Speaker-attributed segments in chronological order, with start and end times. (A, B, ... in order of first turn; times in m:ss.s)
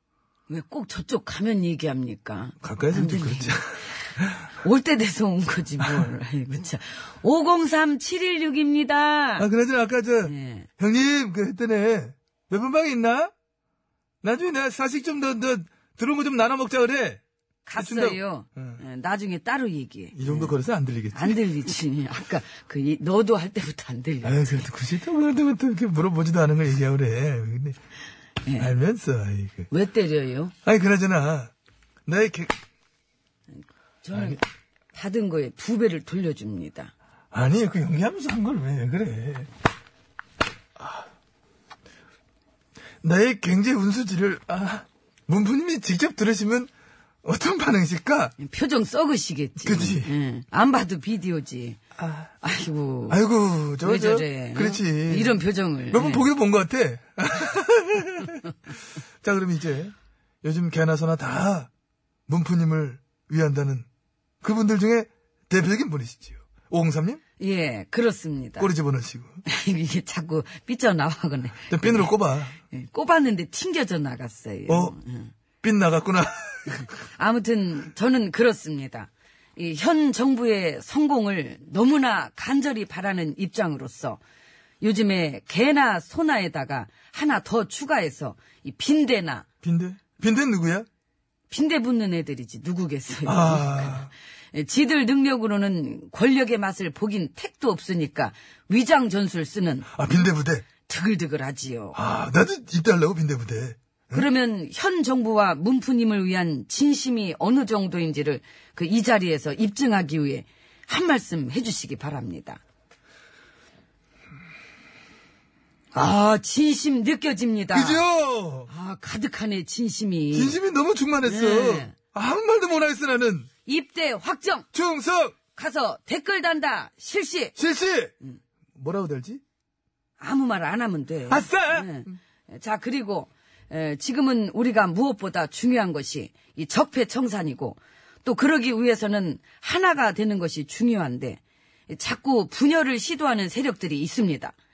0:00.5-0:03.6 A
0:02.6-0:03.6 B
0:04.5-0:09.5 A
0:09.4-0:13.3 B
0:10.2-0:10.7 A
0:14.2-0:17.2 B
0:17.6-0:20.5 A
0:17.8-0:18.8 B
0:20.1-0:21.4 B
0:21.1-0:24.6 A
0:24.2-0:27.8 B
0:28.4-0:28.7 A
0:28.6-0:29.7 B
0:29.7-0:30.5 A
0:30.6-0:31.5 B
0:32.0-0:32.5 B
0:34.0-0:34.4 A
0:34.9-0:36.9 A
0:37.3-0:39.5 B
0:43.0-0:46.7 B
0:47.2-0:48.3 B
0:48.4-0:51.8 A
0:49.6-0:50.1 B
0:52.4-0:53.2 A
0:53.1-0:55.4 B
0:53.8-0:56.3 A
0:55.9-0:58.4 B
0:59.2-1:01.7 B
1:02.3-1:03.8 B
1:04.4-1:07.2 B
1:07.4-1:08.7 A
1:08.6-1:09.4 B
1:09.4-1:15.3 A
1:11.7-1:12.6 B
1:14.7-1:15.0 B
1:15.6-1:16.8 B
1:16.7-1:24.2 A
1:24.8-1:29.4 A
1:29.6-1:30.9 B
1:31.5-1:40.0 A
1:33.2-1:34.1 B
1:39.9-1:40.6 B
1:40.9-1:42.0 A
1:41.9-1:44.2 B
1:44.1-1:52.6 A
1:55.9-1:58.0 A
1:57.7-1:58.7 B
1:58.7-2:00.6 A
2:00.3-2:03.5 B
2:01.2-2:01.9 A
2:03.6-2:04.7 A
2:04.7-2:05.4 B
2:05.5-2:07.6 A
2:07.6-2:08.1 B
2:08.8-2:09.4 B
2:10.2-2:24.5 A
2:11.3-2:12.1 B